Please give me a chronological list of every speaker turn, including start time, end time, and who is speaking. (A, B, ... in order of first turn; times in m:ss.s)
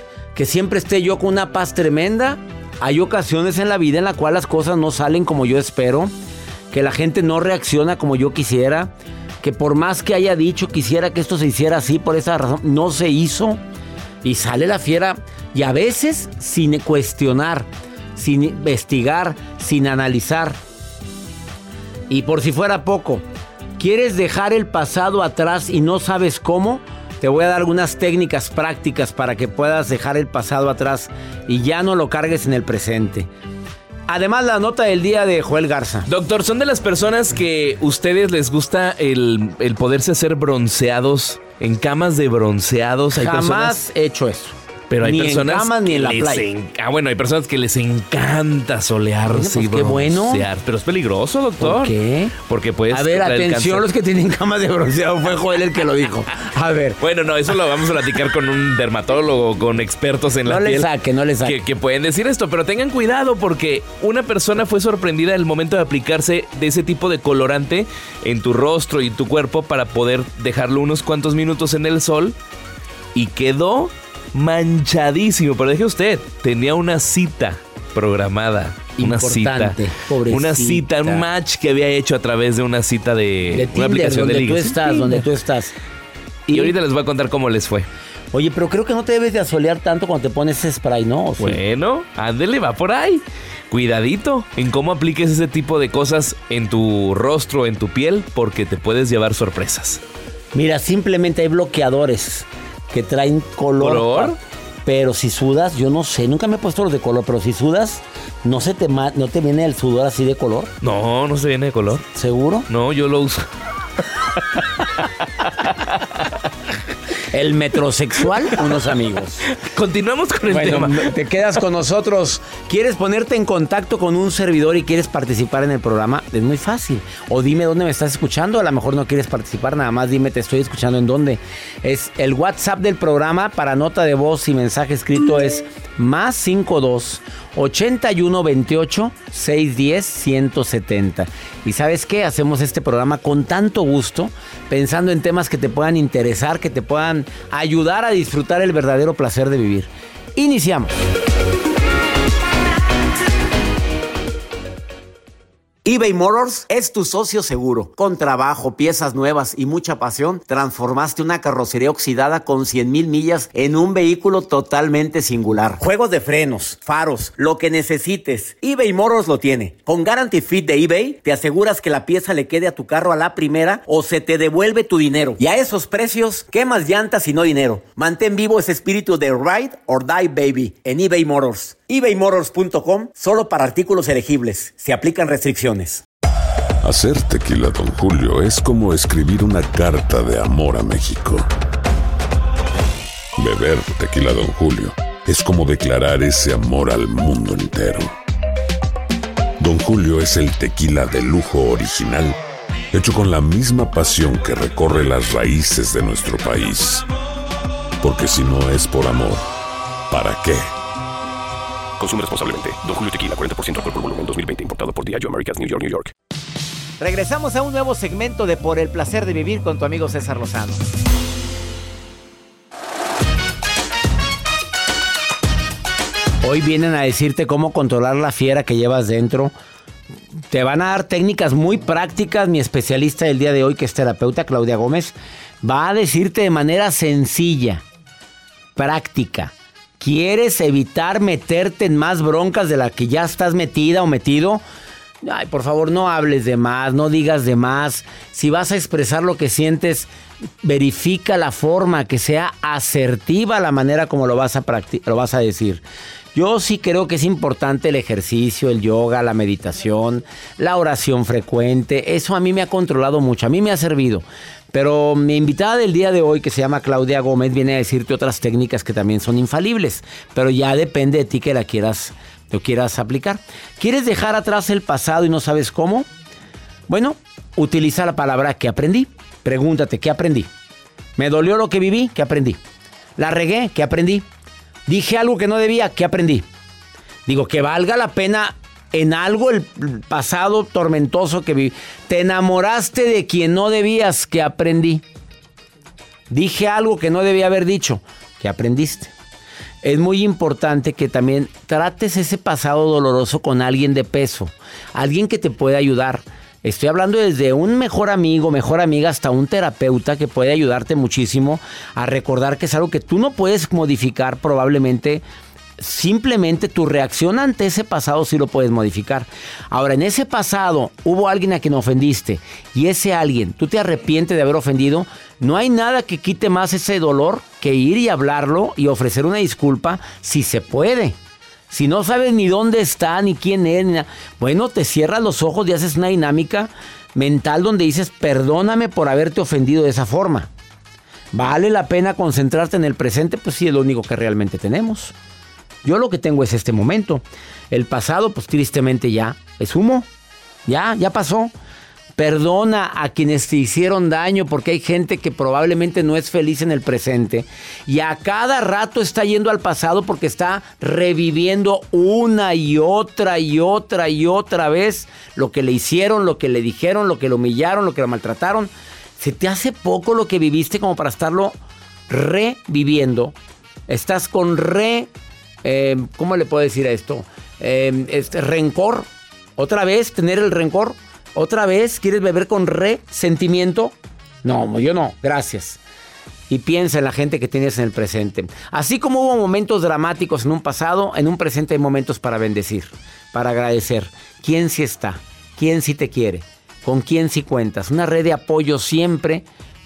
0:00.4-0:06.1 A
0:06.7-0:13.6 A
0:14.2-0:20.6 A
0:22.1-0:23.2 A
0:23.8-0:33.3 A
0:34.1-0:36.1 A
0:36.1-0:43.8 B
0:43.1-0:46.5 A
0:44.9-0:53.9 B
0:49.3-0:50.5 A
0:51.6-0:52.3 A
0:52.9-0:57.0 A
0:57.0-1:00.9 B
1:00.5-1:01.6 A
1:01.4-1:12.4 B
1:13.2-1:25.3 B
1:19.0-1:21.2 A
1:23.5-1:25.7 A
1:26.5-1:26.8 A
1:26.5-1:27.9 B
1:28.3-1:31.6 A
1:31.4-1:40.0 B
1:40.5-1:50.7 A
1:43.8-1:44.4 B
1:50.8-1:52.0 B
1:52.1-1:52.7 A
1:52.7-1:53.4 B
1:57.3-1:59.4 A
1:59.6-2:01.1 B
2:00.5-2:31.0 A
2:35.8-3:06.0 A
3:06.8-3:11.5 C
3:13.4-3:18.1 C
3:19.6-3:22.4 C
3:22.9-3:27.1 C
3:28.0-3:29.5 C
3:30.1-3:30.7 C
3:32.0-3:36.1 D
3:37.0-3:40.8 A
3:46.4-3:49.5 A
3:50.5-3:57.8 A
3:58.8-4:04.6 A
4:05.2-4:10.1 A
4:10.6-4:15.8 A
4:16.4-4:36.1 A
4:36.9-4:40.5 A
4:41.2-4:42.6 A
4:43.2-4:44.3 A
4:44.9-4:46.5 A
4:47.3-4:55.0 A
4:56.3-4:59.1 A
4:59.8-5:15.2 A
5:15.8-5:31.2 A
5:31.7-5:40.5 A
5:41.3-5:45.1 A
5:45.8-5:50.1 A
5:50.7-5:51.5 A
5:52.2-6:11.6 A
6:12.1-6:13.4 A
6:13.9-6:15.1 A
6:15.6-6:25.8 A
6:26.5-6:39.4 A